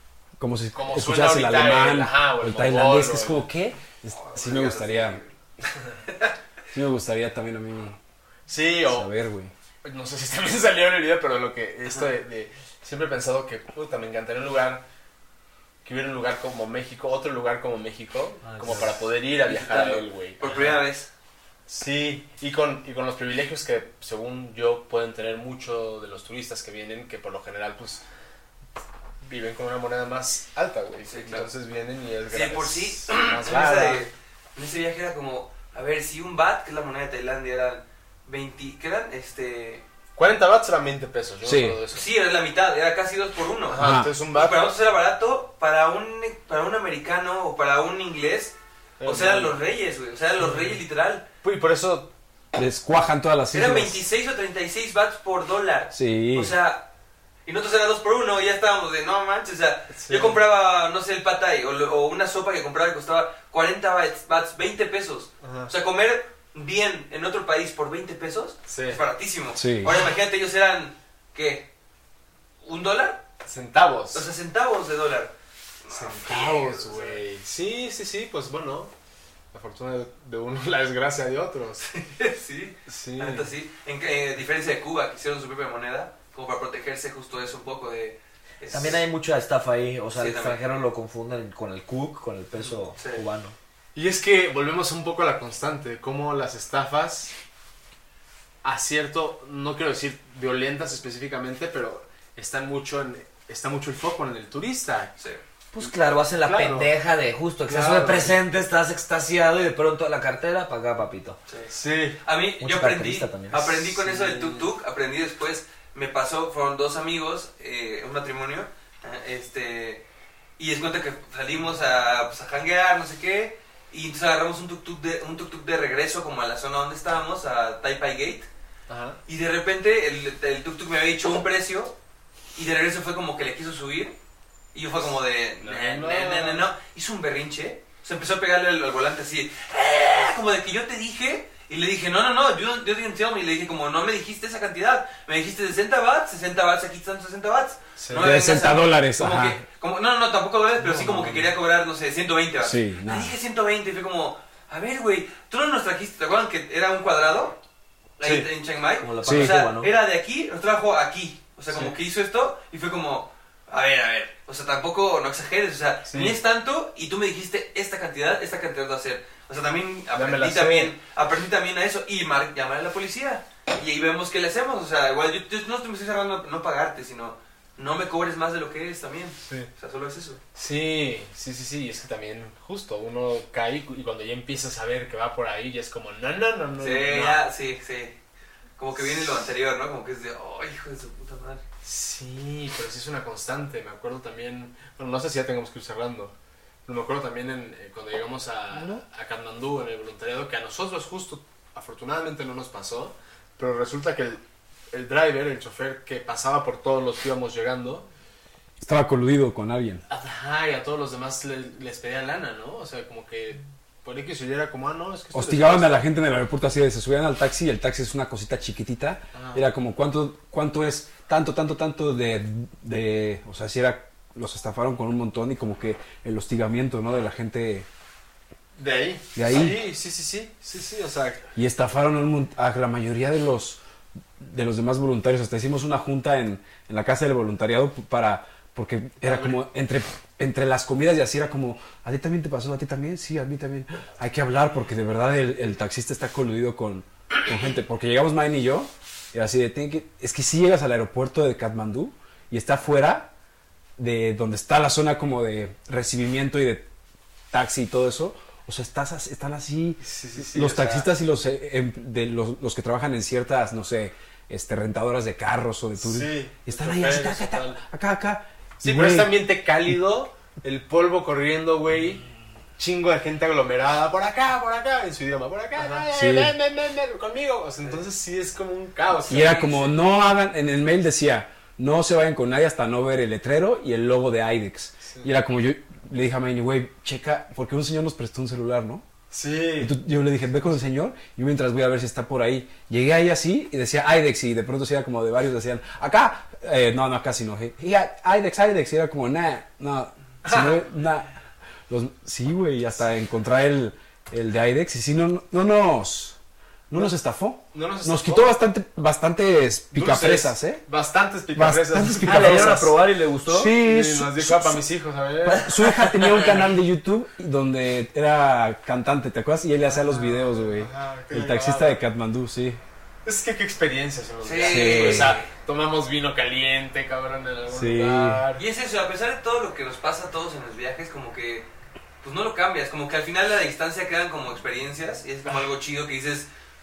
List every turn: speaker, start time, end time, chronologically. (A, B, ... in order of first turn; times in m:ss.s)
0:00.4-0:05.2 A
0:00.7-0:03.5 B
0:04.2-0:05.3 C
0:06.7-0:08.0 A
0:08.5-0:09.1 B
0:08.8-0:09.5 A
0:09.8-0:14.8 B
0:15.8-0:20.8 B
0:18.5-0:19.0 D
0:19.4-0:21.1 C
0:21.7-0:28.0 B
0:29.2-0:34.0 B
0:31.1-0:31.5 C
0:32.3-0:39.8 C
0:40.2-0:42.1 B
0:41.4-0:41.8 A
0:41.9-0:51.2 C
0:43.7-0:44.8 B
0:43.8-0:44.1 A
0:49.0-0:49.6 B
0:50.4-0:50.8 B
0:51.4-0:52.1 B
0:52.5-0:54.0 A
0:53.5-0:56.9 C
0:55.9-0:56.5 A
0:57.5-1:11.7 C
0:59.9-1:00.4 B
1:05.4-1:05.7 B
1:08.7-1:09.0 B
1:09.6-1:10.0 A
1:12.6-1:13.2 C
1:13.4-1:14.3 B
1:14.1-1:15.3 C
1:15.8-1:17.2 C
1:15.9-1:18.9 B
1:19.5-1:21.8 B
1:21.8-1:29.0 C
1:22.9-1:23.5 B
1:28.7-1:33.6 D
1:30.2-1:30.6 C
1:32.6-1:33.2 C
1:34.0-1:37.3 B
1:38.6-1:45.1 B
1:45.7-1:51.4 D
1:46.4-1:46.9 B
1:47.7-1:48.4 B
1:51.5-2:00.0 C
1:51.7-1:52.2 B
1:52.6-1:53.6 D
1:53.6-1:54.7 B
2:00.6-2:08.5 C
2:08.9-2:09.2 B
2:09.3-2:12.0 C
2:12.6-2:14.2 C
2:14.7-2:37.6 C
2:15.6-2:16.7 B
2:28.0-2:28.3 B
2:28.1-2:29.6 A
2:30.8-2:31.5 B
2:32.6-2:33.3 A
2:38.2-3:00.4 C
2:38.2-2:38.5 B
2:39.0-2:39.9 D
2:39.2-2:39.6 A
2:41.7-2:41.9 B
2:46.1-2:46.4 B
2:50.1-2:50.9 B
3:00.6-3:07.4 B
3:06.8-3:08.2 C
3:08.8-3:11.6 C
3:11.8-3:16.3 B
3:16.9-3:28.1 B
3:18.7-3:19.0 A
3:28.8-3:30.0 A
3:30.1-3:36.0 B
3:35.3-3:47.9 A
3:39.3-3:39.6 B
3:48.8-3:51.4 B
3:49.4-3:49.8 A
3:51.6-3:53.8 A
3:54.4-4:13.3 A
3:59.2-3:59.6 B
4:14.0-4:16.9 A
4:17.5-4:30.0 A
4:20.0-4:21.1 B
4:26.0-4:27.8 B
4:28.8-4:32.3 B
4:32.8-4:39.9 B
4:35.9-4:36.5 A
4:39.3-4:49.0 A
4:39.3-4:39.9 C
4:49.3-4:49.9 B
4:49.8-5:01.3 A
5:01.9-5:06.4 A
5:06.9-5:10.8 A
5:07.7-5:08.6 B
5:09.9-5:12.8 B
5:11.5-5:13.0 A
5:12.2-5:13.8 D
5:13.5-5:14.8 A
5:13.8-5:15.7 B
5:15.5-5:16.6 D
5:15.5-5:22.8 A
5:19.8-5:22.0 B
5:23.2-5:28.6 B
5:24.4-5:25.5 C
5:24.6-5:25.3 A
5:24.7-5:25.3 D
5:27.7-5:28.4 A
5:28.6-5:31.7 C
5:32.2-5:36.5 C